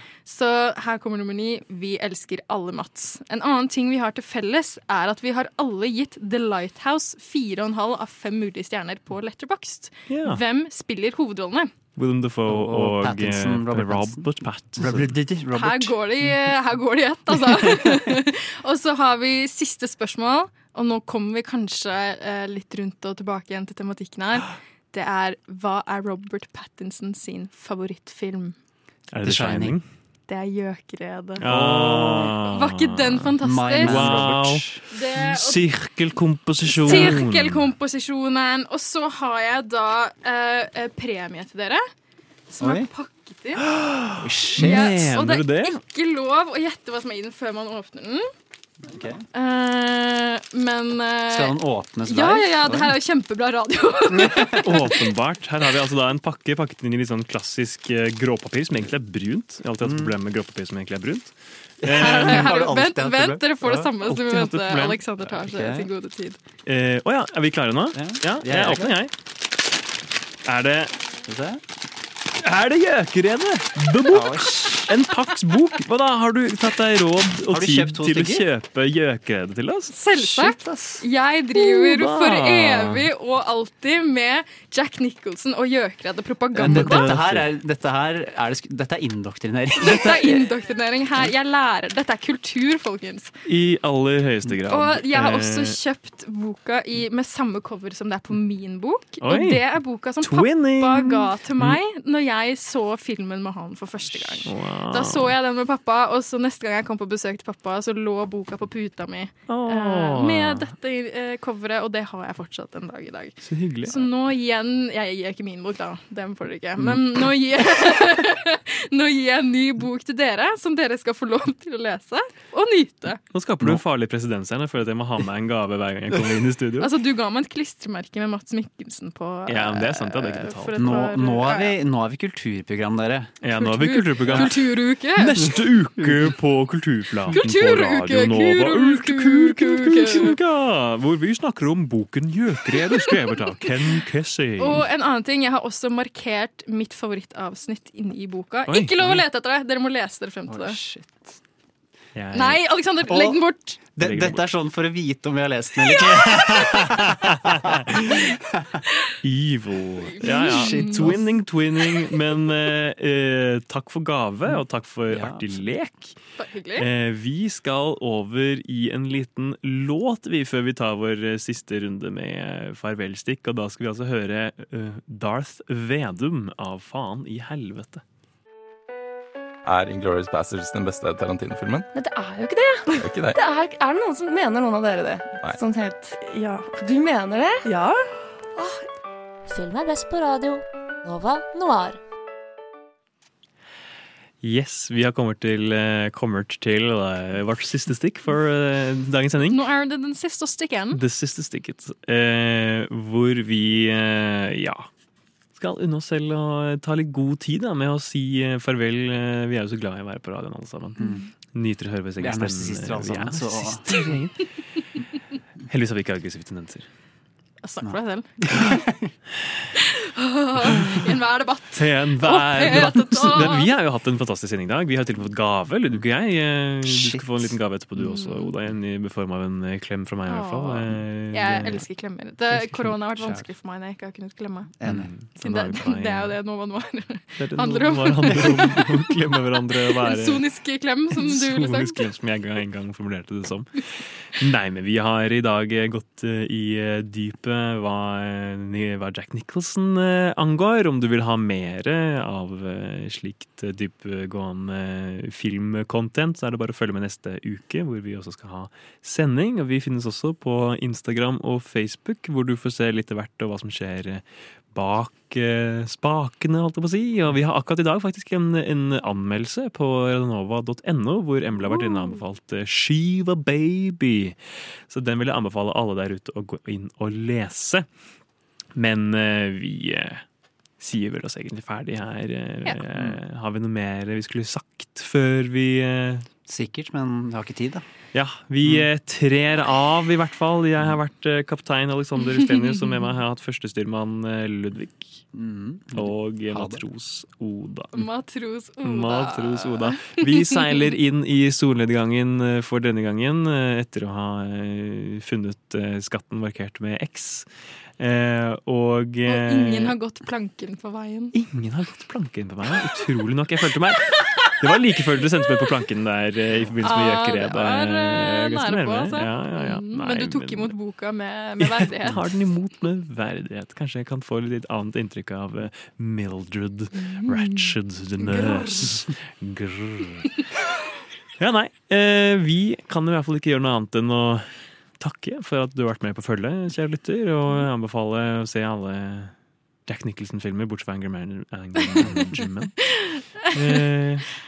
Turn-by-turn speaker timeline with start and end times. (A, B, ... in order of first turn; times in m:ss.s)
0:00.2-0:11.7 A
0:10.1-0:10.4 B
0:12.0-0:15.2 B
0:12.5-0:15.9 C
0:15.5-0:28.5 A
0:29.1-0:29.8 B
0:29.2-0:29.8 C
0:30.3-0:34.3 A
0:31.4-0:33.3 B
0:31.4-0:32.3 C
0:33.4-0:34.8 C
0:33.8-0:37.7 B
0:34.9-0:35.6 A
0:36.6-0:41.8 A
0:36.8-0:37.2 C
0:42.5-0:43.6 A
0:42.6-0:42.9 C
0:43.7-0:45.8 B
0:44.2-0:44.9 C
0:44.6-0:48.3 A
0:48.8-0:49.2 C
0:49.3-0:54.9 A
0:51.3-0:52.9 C
0:54.1-0:54.5 C
0:54.6-1:02.6 B
0:59.8-1:00.2 C
1:01.8-1:03.9 C
1:02.0-1:06.4 A
1:04.0-1:05.0 B
1:05.3-1:05.9 C
1:06.6-1:09.1 B
1:07.9-1:08.9 C
1:10.4-1:10.9 B
1:11.2-1:11.6 C
1:12.4-1:19.9 B
1:14.1-1:14.9 C
1:17.5-1:18.4 C
1:19.9-1:27.1 A
1:20.2-1:21.0 C
1:21.6-1:23.0 B
1:26.6-1:30.4 C
1:26.6-1:27.5 B
1:29.9-1:33.3 A
1:33.4-1:35.8 B
1:34.7-2:03.2 A
1:39.2-1:39.6 B
1:40.2-1:41.8 B
1:44.1-1:45.3 B
1:49.5-1:50.7 B
1:53.4-1:54.0 B
2:03.3-2:06.9 B
2:06.8-2:11.7 A
2:09.5-2:11.0 B
2:10.8-2:13.3 C
2:13.4-2:14.6 B
2:13.6-2:15.6 A
2:15.2-2:24.8 B
2:17.3-2:20.4 A
2:22.8-2:23.3 A
2:24.6-2:30.8 A
2:28.7-2:29.2 B
2:30.5-2:31.4 C
2:32.1-2:32.6 B
2:32.3-2:33.8 A
2:33.1-2:33.4 C
2:33.9-2:38.8 C
2:34.0-2:34.4 B
2:36.2-2:38.3 B
2:39.2-2:46.2 B
2:40.2-2:41.2 A
2:40.3-2:41.2 C
2:45.1-2:45.6 C
2:46.4-2:46.8 A
2:46.8-2:58.0 B
2:59.6-3:01.9 D
3:01.9-3:08.0 E
3:03.0-3:03.4 D
3:09.5-3:12.0 F
3:14.4-3:19.6 B
3:19.5-3:21.0 A
3:20.9-3:24.9 B
3:25.6-3:34.4 B
3:32.2-3:34.0 C
3:35.7-3:36.9 B
3:37.6-3:38.3 A
3:37.8-3:39.1 C
3:40.0-3:43.7 A
3:40.7-3:41.0 B
3:41.8-3:51.8 B
3:46.8-3:47.6 C
3:48.0-3:48.5 A
3:50.3-3:54.7 A
3:54.8-3:55.1 C
3:54.8-3:56.4 B
3:55.4-3:59.0 A
3:57.4-4:00.4 B
3:59.5-4:02.1 A
4:01.2-4:34.4 B
4:31.7-4:32.2 A
4:34.9-4:37.8 B
4:38.8-4:40.2 B
4:40.8-4:46.2 B
4:46.4-4:47.8 C
4:48.1-4:55.2 B
4:52.4-4:52.9 A
4:55.3-4:56.8 C
4:55.9-4:58.1 B
4:57.9-5:00.3 A
4:58.8-5:07.5 B
5:08.0-5:09.9 B
5:09.2-5:11.3 A
5:11.3-5:20.7 B
5:16.8-5:22.2 A
5:21.6-5:30.3 B
5:27.0-5:27.7 A
5:28.3-5:29.0 A
5:31.4-5:39.3 B
5:39.9-5:42.9 B
5:42.0-5:42.3 C
5:42.9-5:43.2 A
5:43.4-5:44.3 B